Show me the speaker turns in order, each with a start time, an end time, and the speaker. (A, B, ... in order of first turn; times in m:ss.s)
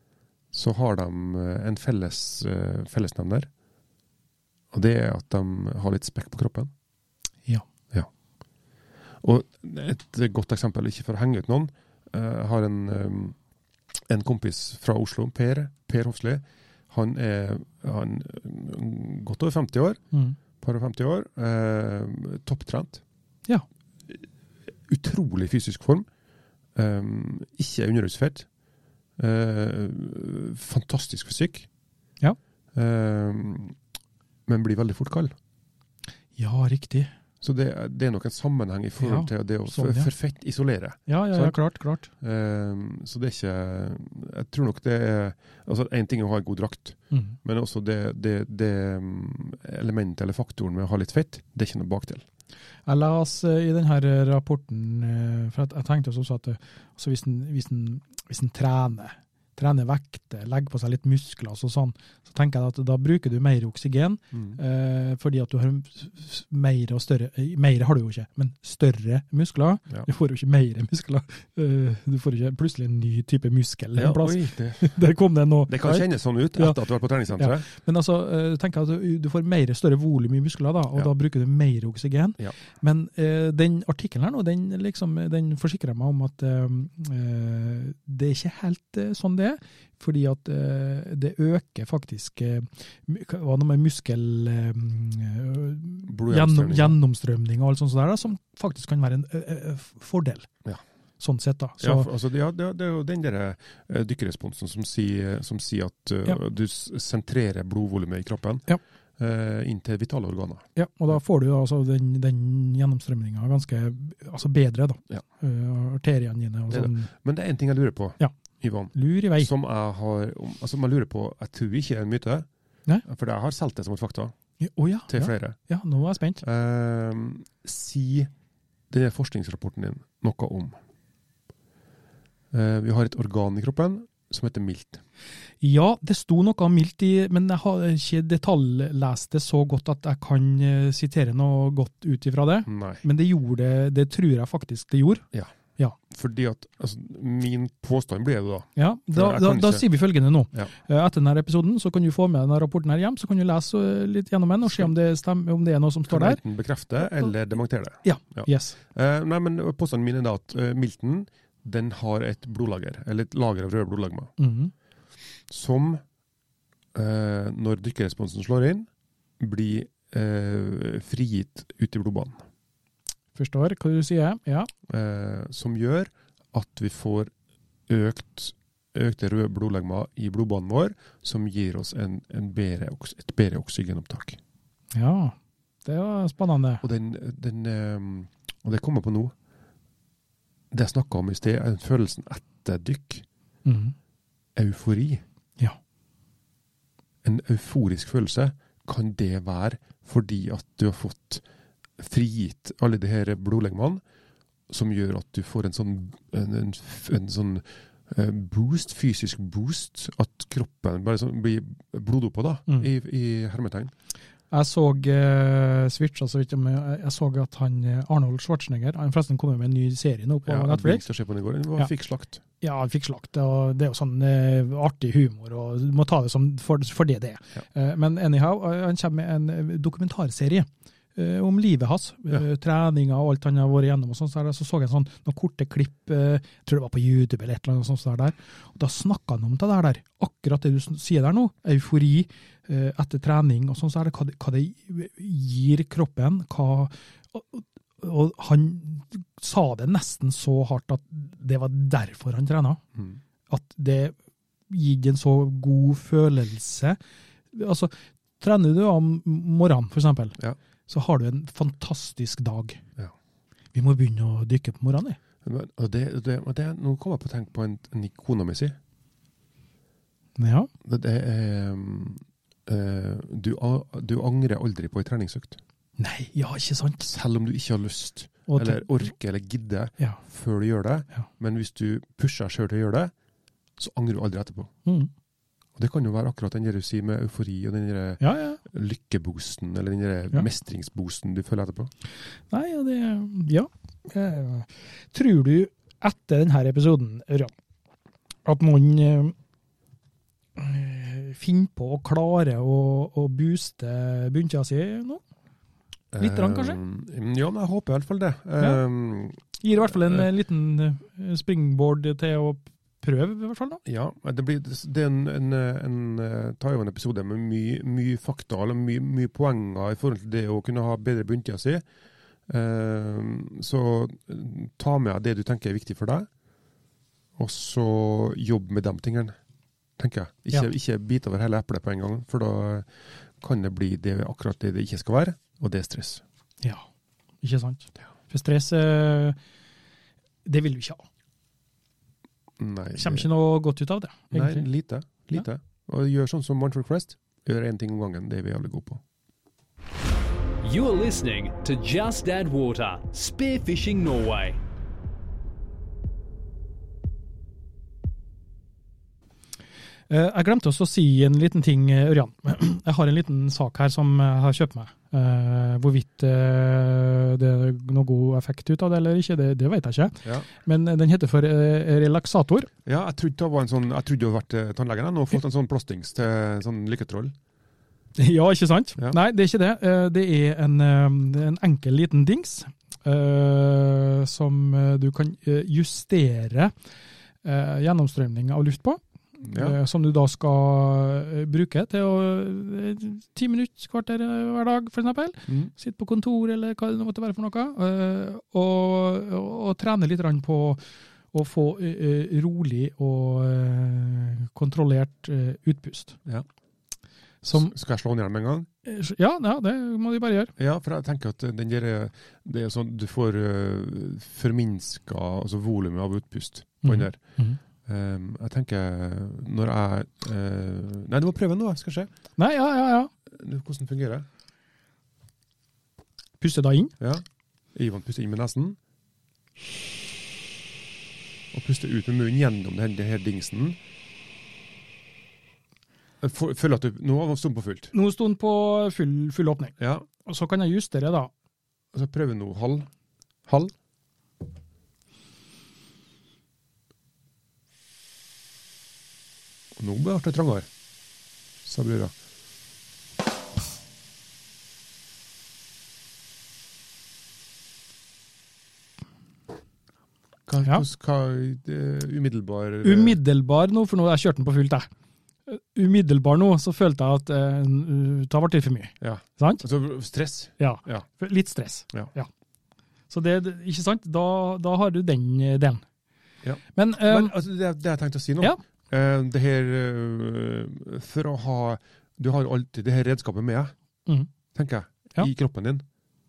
0:00.5-0:03.5 A
0:04.7-0:06.7 A
0:09.2-0:13.4 A
0:14.1-0:20.0 A
0:20.1-0:20.4 B
0:20.6-0:23.0 A
0:24.9-0:26.1 A
0:26.7-0:28.5 A
0:29.2-0:31.7 A
0:32.7-0:33.8 A
0:34.5-0:35.3 A
0:36.4-0:37.1 B
0:37.4-0:41.6 A
0:39.0-0:40.1 B
0:41.1-0:42.1 B
0:42.2-0:52.2 A
0:52.8-1:16.8 B
1:04.3-1:04.6 A
1:14.0-1:15.0 A
1:15.7-1:17.6 A
1:17.4-1:40.5 B
1:36.1-1:37.0 A
1:41.2-1:42.1 B
1:41.8-1:48.6 A
1:49.2-1:50.7 A
1:50.7-1:57.1 B
1:56.7-2:02.5 A
1:58.9-1:59.5 B
2:03.0-2:04.3 A
2:04.6-2:06.4 B
2:05.1-2:05.6 A
2:06.4-2:08.3 A
2:08.9-2:10.8 A
2:12.5-2:15.0 A
2:15.6-2:25.2 B
2:22.7-2:23.0 A
2:26.1-2:29.8 A
2:28.8-2:36.4 B
2:36.1-2:44.3 A
2:38.0-2:38.8 B
2:44.4-2:44.7 B
2:45.5-2:46.0 A
2:46.9-2:48.9 A
2:49.4-2:52.4 A
2:53.3-2:54.7 B
2:54.9-2:57.3 A
2:57.9-3:04.4 A
3:04.9-3:06.8 B
3:06.8-3:09.3 A
3:10.7-3:13.2 A
3:13.6-3:13.9 B
3:14.6-3:15.2 A
3:17.2-3:21.4 A
3:22.0-3:24.0 A
3:24.7-3:33.9 A
3:34.5-3:41.0 B
3:40.4-3:42.4 A
3:42.6-4:12.8 B
4:13.5-4:14.1 B
4:14.7-4:17.0 B
4:17.5-4:22.8 B
4:23.7-4:25.2 B
4:25.4-4:28.8 A
4:30.4-4:30.7 B
4:30.8-4:35.6 A
4:36.0-4:37.1 B
4:37.0-4:43.1 A
4:38.5-4:38.9 B
4:43.8-4:44.7 A
4:45.8-4:51.9 A
4:48.2-4:48.6 B
4:52.5-4:57.5 B
4:58.4-4:59.3 B
5:00.6-5:05.2 B
5:06.1-5:10.3 A
5:06.2-5:06.8 B
5:09.6-5:13.8 B
5:13.8-5:21.8 A
5:22.5-5:26.3 A
5:27.4-5:29.4 A
5:30.0-5:32.9 A
5:33.4-5:36.2 A
5:37.4-5:39.4 B
5:40.4-5:41.0 B
5:42.6-5:43.3 A
5:43.0-5:44.7 B
5:44.3-5:49.0 A
5:50.6-5:54.6 C
6:00.1-6:12.7 B
6:12.8-6:17.3 A
6:18.2-6:26.7 B
6:27.4-6:40.8 B
6:29.5-6:29.8 A
6:41.3-6:46.2 B
6:47.4-6:47.7 B
6:47.5-6:48.7 A
6:48.8-6:50.5 B
6:50.6-6:57.2 A
6:56.8-6:57.6 B
6:57.8-7:02.1 A
7:02.4-7:03.1 B
7:03.3-7:04.2 A
7:06.4-7:06.9 B
7:07.7-7:08.8 A
7:11.5-7:13.8 A
7:16.2-7:17.9 A
7:17.9-7:21.3 B
7:19.8-7:20.1 A
7:21.9-7:22.9 A
7:23.4-7:23.7 A
7:29.8-7:30.7 A
7:31.6-7:32.1 A
7:40.5-7:43.2 A
7:42.8-7:44.9 B
7:45.5-7:49.6 B
7:49.0-7:51.0 A
7:50.6-7:52.3 B
7:53.1-7:55.8 B
7:56.4-8:03.7 A
7:56.7-7:57.3 B
8:04.5-8:05.8 A